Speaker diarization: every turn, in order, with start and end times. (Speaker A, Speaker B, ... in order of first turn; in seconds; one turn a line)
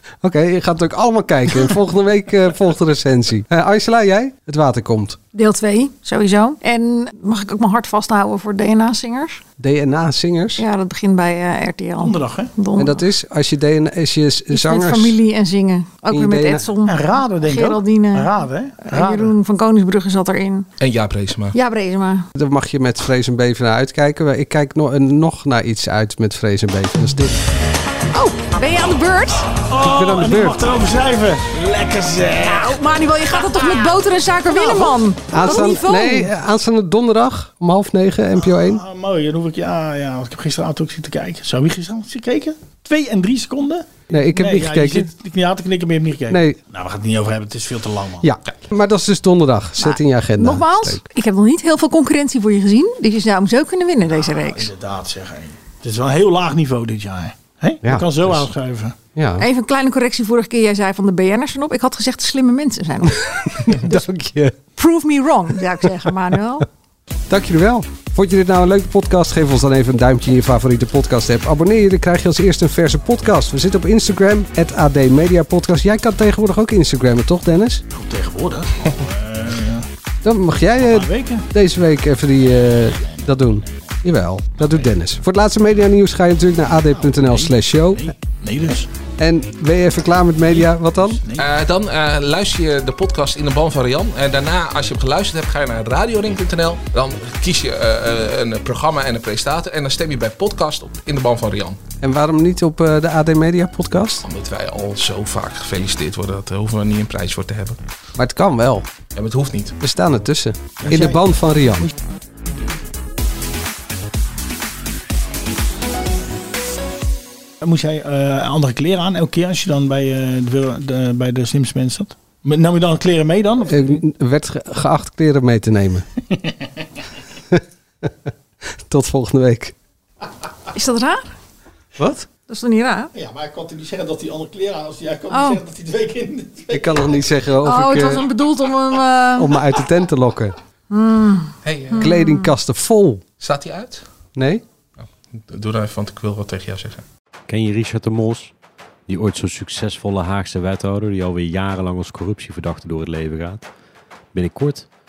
Speaker A: 0.2-5.2
Speaker B: 5.3-9.4
Speaker A: 9.6-10.6
Speaker B: 10.6-13.1
Speaker C: 12.0-12.5
Speaker A: 12.8-15.2
Speaker B: 14.5-20.7
Speaker A: 16.1-16.7
Speaker C: 16.9-19.4
Speaker D: 20.8-21.6
Speaker B: 21.5-22.3
Speaker A: 22.4-27.4
Speaker B: 28.1-29.5
Speaker C: 29.7-32.8
Speaker A: 29.8-30.8
Speaker B: 32.4-36.3
Speaker C: 33.4-33.8
Speaker C: 34.5-35.0
Speaker A: 35.3-38.8
Speaker C: 38.4-48.3
Speaker A: 44.1-45.1
Speaker A: 46.3-46.6
Speaker A: 48.2-51.0
Speaker B: 49.8-54.7
Speaker C: 54.1-59.0
Speaker A: 57.8-58.5
Speaker A: 59.2-59.5
Speaker B: 59.4-64.0
Speaker A: 63.3-64.6
Speaker B: 64.8-66.7
Speaker A: 67.3-77.8
Speaker C: 77.9-79.9
Speaker A: 80.2-88.1
Speaker C: 80.8-81.5
Speaker C: 86.8-88.9
Speaker A: 89.2-91.2
Speaker C: 90.5-91.5
Speaker D: 91.4-101.8
Speaker A: 102.0-104.2
Speaker D: 104.2-107.8
Speaker A: 108.2-108.9
Speaker D: 109.2-109.8
Speaker A: 109.8-111.9
Speaker C: 110.8-111.2
Speaker C: 117.6-124.0
Speaker A: 123.6-126.0
Speaker A: 127.5-128.1
Speaker A: 128.9-129.8
Speaker B: 130.7-131.3
Speaker A: 132.0-132.3
Speaker B: 132.5-133.1
Speaker C: 133.1-137.3
Speaker B: 135.3-135.6
Speaker A: 136.7-138.3
Speaker B: 137.6-139.6
Speaker A: 139.4-140.5
Speaker B: 140.9-142.5
Speaker D: 141.6-142.1
Speaker A: 142.0-143.2
Speaker D: 143.4-144.1
Speaker A: 144.4-144.6
Speaker D: 145.3-147.0
Speaker E: 147.5-148.5
Speaker E: 149.1-153.7
Speaker E: 154.3-154.9